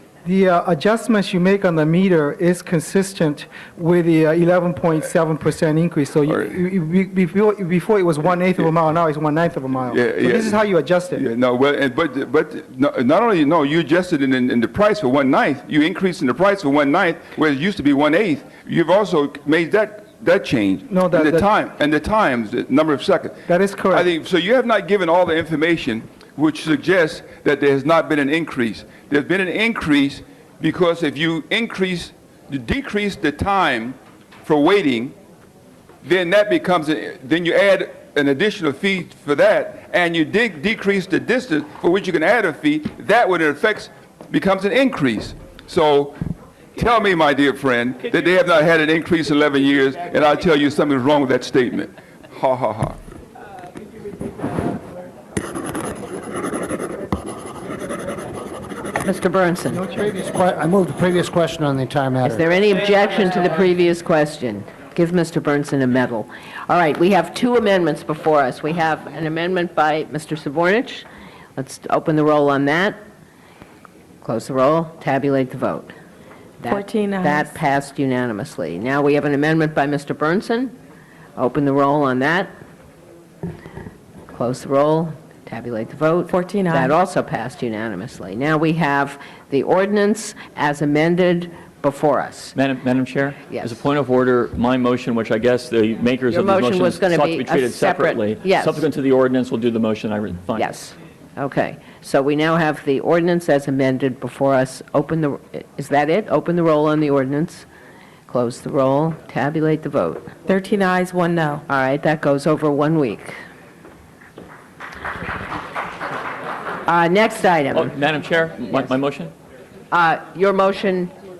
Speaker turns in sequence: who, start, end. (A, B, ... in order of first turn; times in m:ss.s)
0:00.2-0:11.2 A
0:06.2-0:06.5 B
0:09.9-0:10.6 B
0:11.1-0:35.2 B
0:20.9-0:21.4 A
0:23.5-0:24.0 A
0:36.0-0:46.2 B
0:46.8-0:53.0 B
0:59.0-0:59.8 C
0:59.7-1:02.4 D
1:02.2-1:11.0 C
1:11.6-1:13.0 C
1:14.2-1:15.9 C
1:16.6-1:20.7 C
1:16.7-1:17.5 E
1:21.4-1:22.5 C
1:24.3-1:32.5 C
1:26.3-1:26.9 E
1:32.5-1:40.7 F
1:33.5-1:33.8 C
1:36.3-1:38.8 C
1:40.6-1:47.6 C
1:48.3-1:50.3 C
1:50.4-1:51.6 E
1:51.7-1:53.3 C
1:56.8-1:57.9 C
1:57.7-1:59.3 F
1:59.9-2:01.1 C